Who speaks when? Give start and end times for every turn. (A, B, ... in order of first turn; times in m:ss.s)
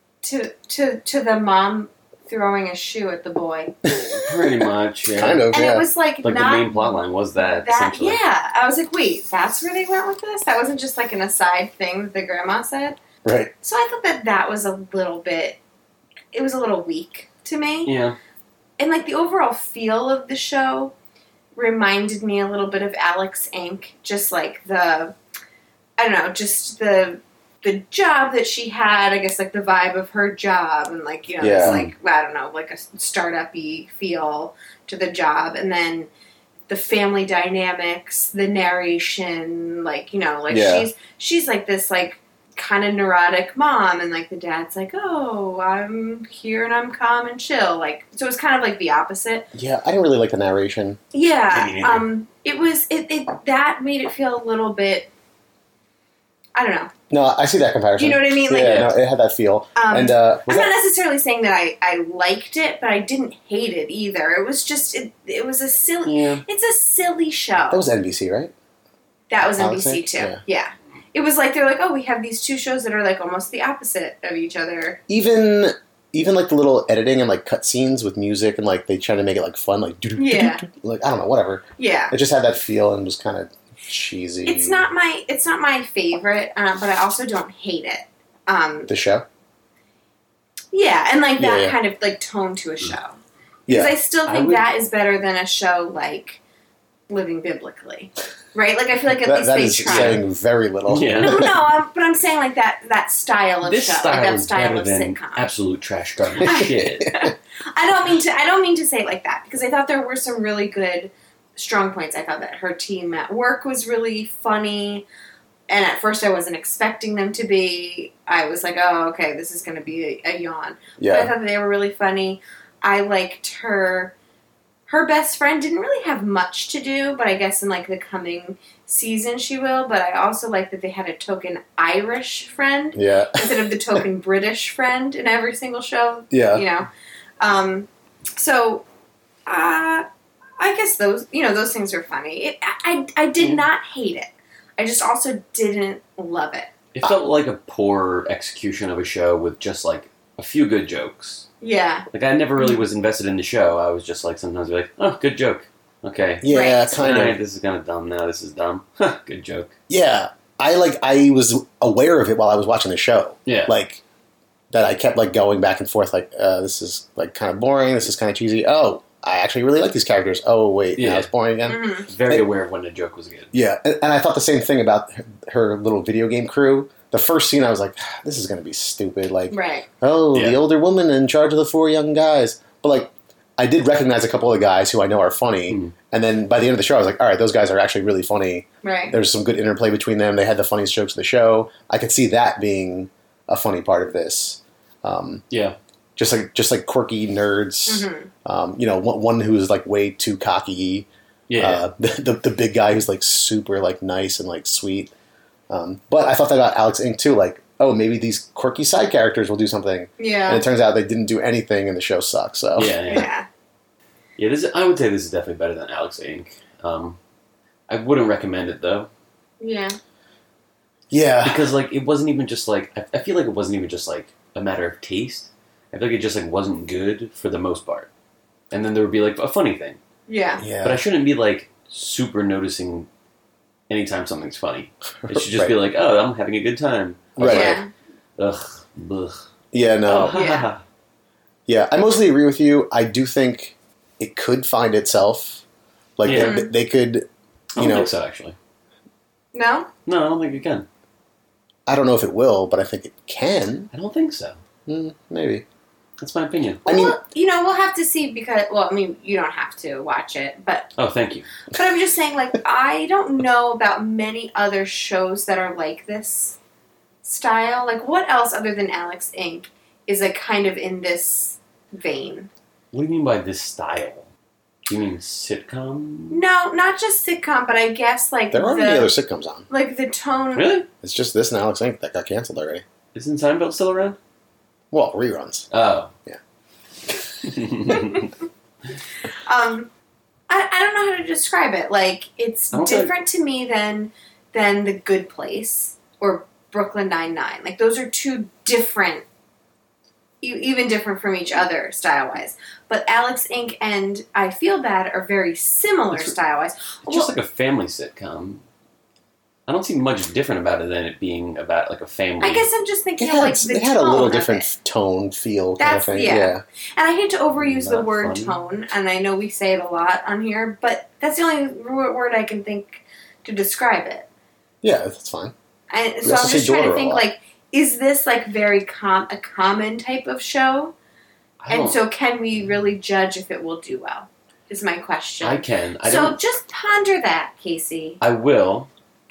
0:00.2-0:03.7 A
0:03.9-0:04.3 B
0:04.2-0:05.4 C
0:05.2-0:05.9 B
0:05.5-0:13.0 A
0:06.2-0:08.2 C
0:13.2-0:13.5 B
0:13.6-0:15.6 A
0:16.3-0:17.9 A
0:17.8-0:18.2 C
0:18.8-0:20.9 A
0:21.5-0:25.1 A
0:26.0-0:36.1 A
0:31.4-0:31.9 B
0:31.6-0:31.9 C
0:36.7-0:49.5 A
0:40.5-0:40.9 B
0:49.5-0:51.0 B
0:51.1-0:55.1 A
0:51.5-0:52.1 C
0:56.5-0:56.9 A
0:57.1-1:00.7 B
0:58.0-0:58.9 A
0:58.6-0:58.9 C
0:59.8-1:07.8 A
1:06.0-1:06.4 C
1:07.7-1:08.5 B
1:09.3-1:15.0 A
1:09.4-1:10.4 B
1:15.1-1:24.8 B
1:20.2-1:20.6 A
1:21.8-1:22.1 A
1:24.4-1:28.9 A
1:28.9-1:29.2 B
1:30.7-1:33.2 A
1:31.4-1:31.8 B
1:33.7-1:34.0 B
1:33.7-1:36.4 A
1:34.2-1:34.6 C
1:37.1-1:40.2 A
1:39.2-1:41.5 B
1:39.8-1:40.2 C
1:40.9-1:41.5 C
1:41.2-1:45.5 A
1:43.6-1:47.1 C
1:46.4-1:55.0 A
1:46.6-1:46.9 B
1:55.7-2:04.1 A
2:01.0-2:01.3 B
2:04.9-2:16.9 A
2:12.9-2:14.0 B
2:16.3-2:16.6 B
2:17.4-2:18.8 A
2:19.4-2:20.0 A
2:20.6-2:26.7 A
2:26.9-2:31.5 C
2:31.6-2:32.0 A
2:32.1-2:39.7 C
2:36.4-2:37.4 B
2:36.5-2:37.0 A
2:39.9-2:44.0 B
2:43.4-2:43.7 C
2:44.7-2:52.4 B
2:51.0-2:51.3 C
2:51.6-2:52.1 A
2:52.1-2:53.5 C
2:53.5-3:15.4 B
2:59.5-2:59.9 A
3:00.3-3:00.6 C
3:05.7-3:05.9 C
3:08.8-3:09.2 A
3:15.5-3:15.8 C
3:16.2-3:21.1 B
3:17.9-3:18.3 A
3:21.5-3:21.8 C
3:21.6-3:25.1 B
3:25.7-3:33.0 B
3:30.2-3:30.6 A
3:32.8-3:33.3 C
3:33.1-3:33.4 A
3:34.4-3:37.2 C
3:37.9-3:39.1 C
3:39.6-3:40.0 A
3:41.1-3:41.7 B
3:41.4-3:48.1 C
3:48.7-3:50.0 C
3:50.3-3:50.6 A
3:50.6-3:51.0 B
3:50.8-3:53.1 C
3:53.9-3:57.8 C
3:55.2-3:55.8 B
3:57.4-3:57.8 B
3:57.4-3:57.9 A
3:58.4-3:59.4 C
3:59.7-4:00.4 B
4:00.0-4:00.8 C
4:00.3-4:00.7 A
4:01.7-4:05.6 B
4:06.2-4:08.1 B
4:06.2-4:06.6 C
4:06.3-4:06.7 A
4:07.7-4:08.6 C
4:09.5-4:09.9 A
4:10.0-4:10.8 C
4:11.9-4:13.9 B
4:13.9-4:14.6 C
4:14.9-4:15.6 B
4:16.2-4:16.8 C
4:16.8-4:20.9 A
4:16.8-4:17.2 B
4:21.0-4:21.5 C
4:21.7-4:26.6 A
4:27.2-4:32.5 A
4:32.9-4:34.3 C
4:34.9-4:36.4 C
4:36.3-4:39.1 A
4:38.5-4:39.7 B
4:39.7-4:40.8 A
4:40.6-4:40.9 C
4:41.0-4:42.8 B
4:43.1-4:44.2 C
4:44.9-4:45.7 B
4:45.7-4:46.1 C
4:47.4-4:48.3 C
4:47.9-4:48.2 A
4:49.4-4:49.9 A
4:50.5-4:59.2 A
4:52.7-4:53.1 C
5:00.4-5:07.3 A
5:07.0-5:08.6 C
5:09.7-5:12.6 C
5:12.4-5:14.7 A
5:13.2-5:16.6 B
5:15.8-5:24.2 A
5:17.6-5:18.6 C
5:24.8-5:25.5 B
5:25.9-5:30.9 A
5:26.2-5:27.2 B
5:31.6-5:32.0 C
5:31.7-5:38.2 A
5:35.4-5:36.4 C
5:38.2-5:38.9 C